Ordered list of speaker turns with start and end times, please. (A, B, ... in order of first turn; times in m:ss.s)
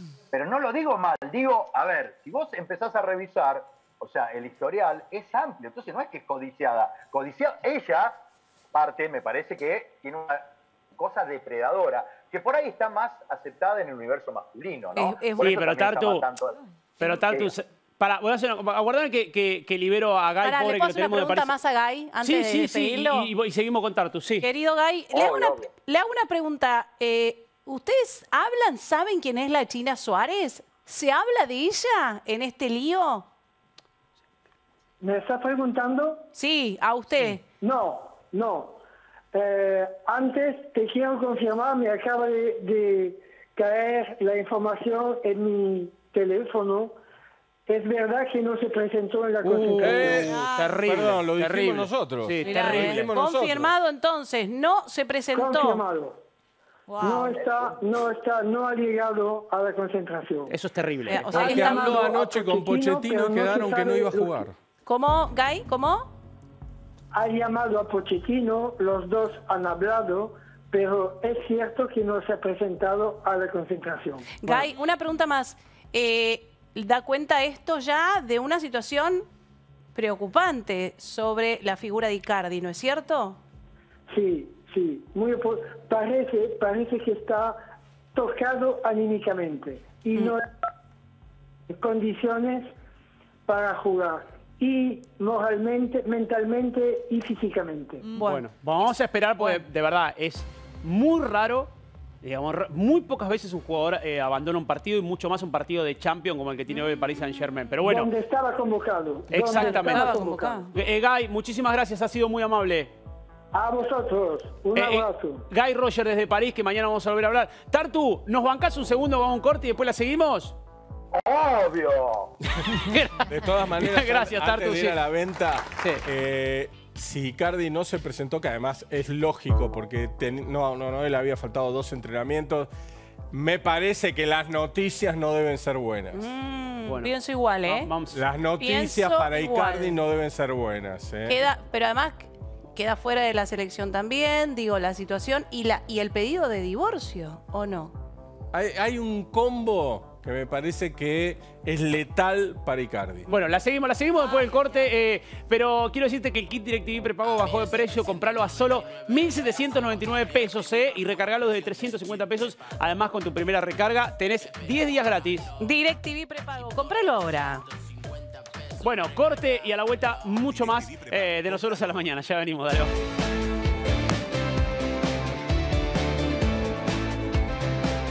0:00.3-0:08.2 A
0:08.7-0:17.5 A
0:15.0-0:15.6 B
0:15.4-0:16.3 C
0:17.0-0:21.5 C
0:20.4-0:23.3 B
0:22.2-0:24.5 C
0:24.4-0:33.3 B
0:25.1-0:25.7 A
0:35.0-0:36.3 D
0:36.3-0:37.4 B
0:37.6-0:38.8 D
0:39.3-0:47.0 D
0:47.7-0:50.3 D
0:49.4-0:53.7 E
0:49.8-0:53.1 C
0:50.2-0:50.9 F
0:52.4-0:52.8 F
0:52.4-0:55.8 B
0:55.3-0:56.2 D
0:56.9-0:57.4 F
0:57.0-1:00.5 D
0:57.2-0:57.8 A
1:00.5-1:01.6 C
1:01.1-1:02.1 B
1:01.2-1:04.5 D
1:01.3-1:04.6 E
1:04.8-1:06.1 B
1:07.1-1:14.6 D
1:14.4-1:19.2 B
1:19.9-1:23.4 B
1:24.1-1:27.6 D
1:28.1-1:30.5 D
1:31.7-1:32.7 D
1:33.4-1:38.0 D
1:38.1-1:38.4 B
1:38.2-1:48.1 C
1:39.4-1:39.6 B
1:47.8-1:50.7 D
1:49.3-1:52.9 C
1:49.5-1:50.7 B
1:53.5-1:55.4 D
1:54.7-2:00.6 C
2:01.1-2:02.3 A
2:02.6-2:05.0 C
2:03.2-2:12.7 E
2:13.3-2:16.2 E
2:16.1-2:17.9 B
2:16.8-2:18.2 C
2:18.1-2:21.4 E
2:18.6-2:20.0 B
2:21.3-2:27.9 B
2:28.5-2:33.3 E
2:33.3-2:45.5 C
2:34.1-2:34.9 F
2:45.6-2:47.6 B
2:48.8-2:52.9 C